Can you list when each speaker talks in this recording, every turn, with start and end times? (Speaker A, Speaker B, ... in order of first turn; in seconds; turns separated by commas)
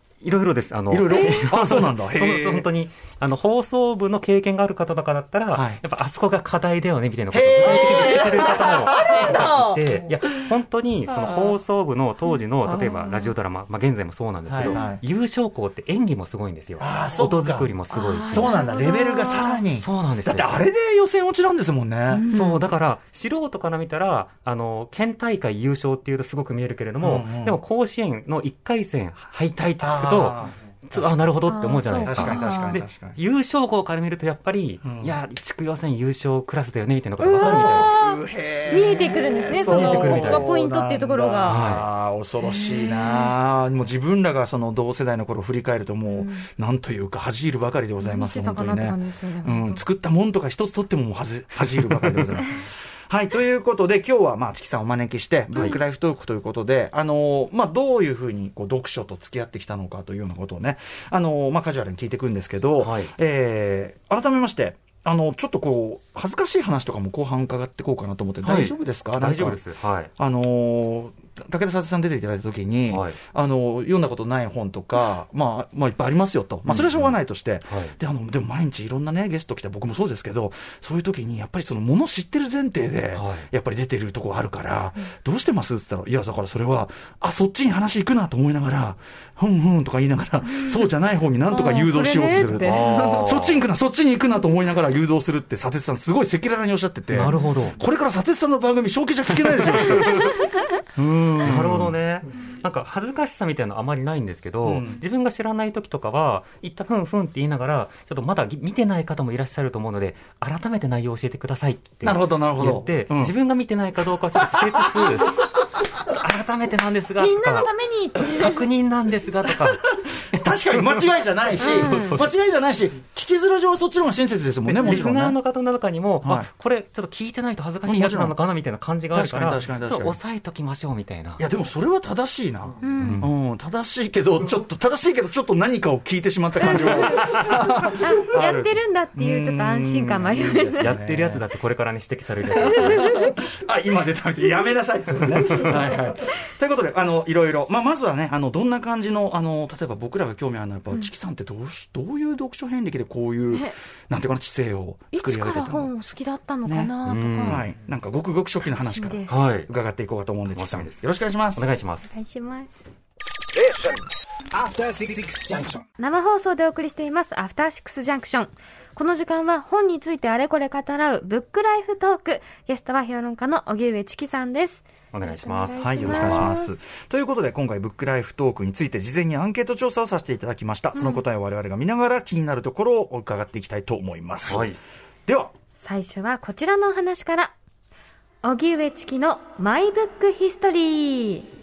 Speaker A: 0.2-18.7, Speaker B: 0.9-2.7, Speaker C: 1.1-1.5, Speaker B: 5.5-5.8, Speaker B: 7.3-9.4, Speaker C: 7.7-9.8, Speaker B: 14.5-15.0, Speaker C: 14.6-15.0, Speaker B: 16.8-17.7, Speaker C: 17.9-19.6, Speaker B: 18.3-22.3, Speaker A: 19.7-20.6, Speaker C: 22.1-22.6, Speaker A: 22.3-37.9, Speaker B: 27.0-27.6, Speaker B: 29.8-31.3, Speaker C: 31.4-32.8, Speaker B: 32.0-33.2, Speaker B: 34.8-35.1, Speaker C: 37.2-41.6, Speaker B: 37.4-69.6, Speaker A: 39.5-40.5, Speaker A: 41.4-41.9, Speaker C: 42.5-43.3, Speaker C: 46.1-46.5, Speaker C: 48.0-49.8, Speaker A: 62.8-63.1, Speaker A: 68.4-70.1, Speaker B: 70.2-101.9, Speaker A: 72.9-73.2, Speaker A: 76.7-77.2, Speaker A: 77.7-78.0, Speaker A: 83.1-83.5, Speaker C: 91.5-93.3, Speaker A: 92.6-93.6, Speaker A: 97.1-97.8, Speaker C: 97.2-97.5, Speaker A: 101.3-121.1, Speaker B: 104.6-105.0, Speaker B: 112.0-113.3, Speaker B: 114.4-115.4, Speaker C: 117.2-118.6, Speaker B: 119.5-125.4, Speaker C: 121.6-122.1, Speaker A: 121.6-122.3, Speaker A: 124.6-131.4, Speaker B: 126.2-126.5, Speaker B: 127.8-128.3, Speaker B: 129.1-130.2, Speaker B: 131.4-141.4, Speaker C: 132.8-133.2, Speaker A: 133.0-133.3, Speaker C: 136.6-140.9, Speaker A: 137.2-137.5, Speaker A: 140.8-143.1, Speaker C: 142.6-143.4, Speaker B: 142.6-155.9, Speaker C: 155.1-157.6, Speaker B: 156.6-156.9, Speaker A: 157.0-157.7, Speaker B: 157.4-161.7, Speaker C: 158.8-159.4, Speaker A: 159.3-159.7, Speaker A: 160.5-162.1, Speaker C: 162.1-162.7, Speaker C: 166.0-176.7, Speaker A: 175.1-176.5, Speaker B: 175.8-184.7, Speaker C: 180.9-181.2, Speaker A: 184.4-184.8, Speaker B: 185.2-185.5, Speaker C: 185.8-187.5, Speaker C: 188.4-191.5